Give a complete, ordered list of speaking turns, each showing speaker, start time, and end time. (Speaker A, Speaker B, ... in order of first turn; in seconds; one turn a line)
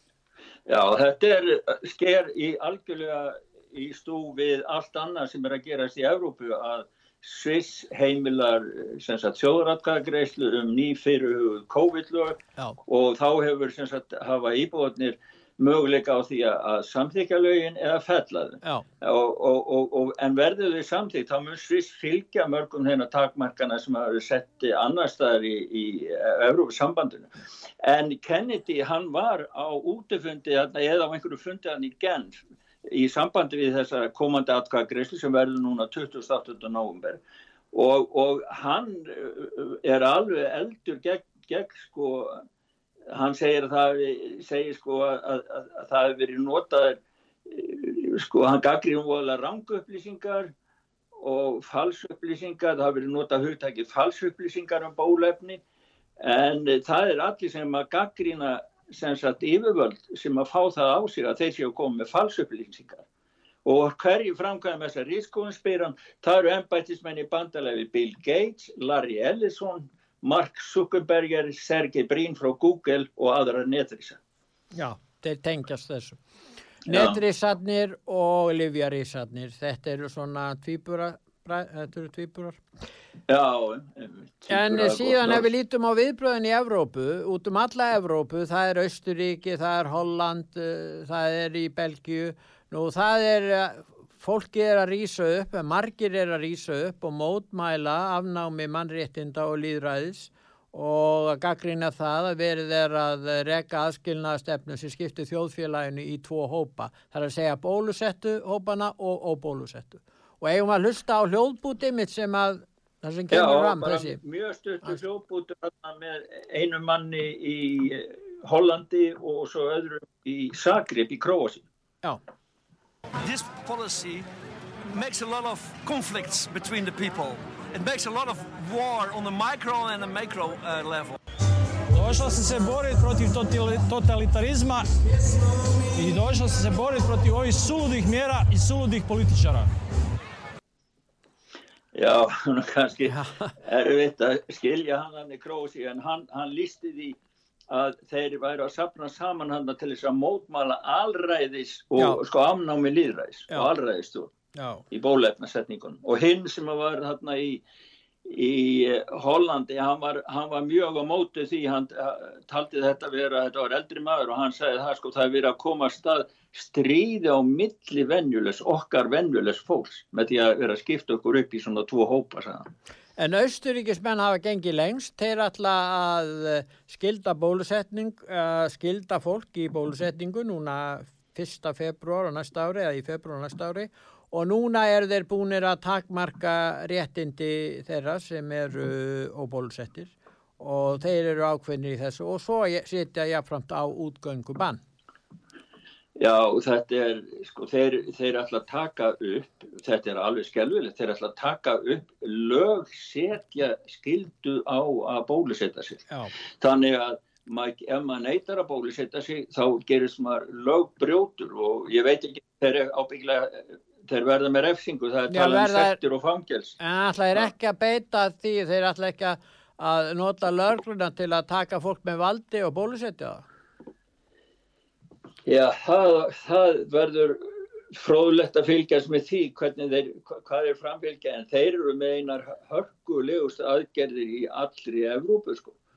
Speaker A: 0.7-27.3
Speaker A: 27.8-37.2
Speaker A: 37.7-42.4
Speaker A: 43.1-50.5
Speaker A: 51.2-55.6
Speaker A: 56.2-63.0
Speaker A: 63.6-74.2
Speaker B: 74.7-76.2
Speaker A: 76.9-77.2
Speaker B: 76.9-82.6
Speaker A: 83.3-85.5
Speaker B: 84.5-114.2
Speaker A: 113.3-121.6
Speaker C: 123.2-124.3
Speaker C: 124.9-131.2
Speaker D: 131.9-134.9
Speaker D: 135.9-139.7
Speaker A: 141.9-147.2
Speaker B: 143.1-143.5
Speaker A: 147.7-154.3
Speaker B: 154.5-154.8
Speaker A: 154.9-157.6
Speaker A: 158.2-172.7
Speaker B: 173.2-194.8
Speaker A: 196.2-206.0
Speaker A: 206.6-216.8
Speaker B: 215.3-216.0
Speaker B: 216.8-223.4
Speaker A: 225.4-235.8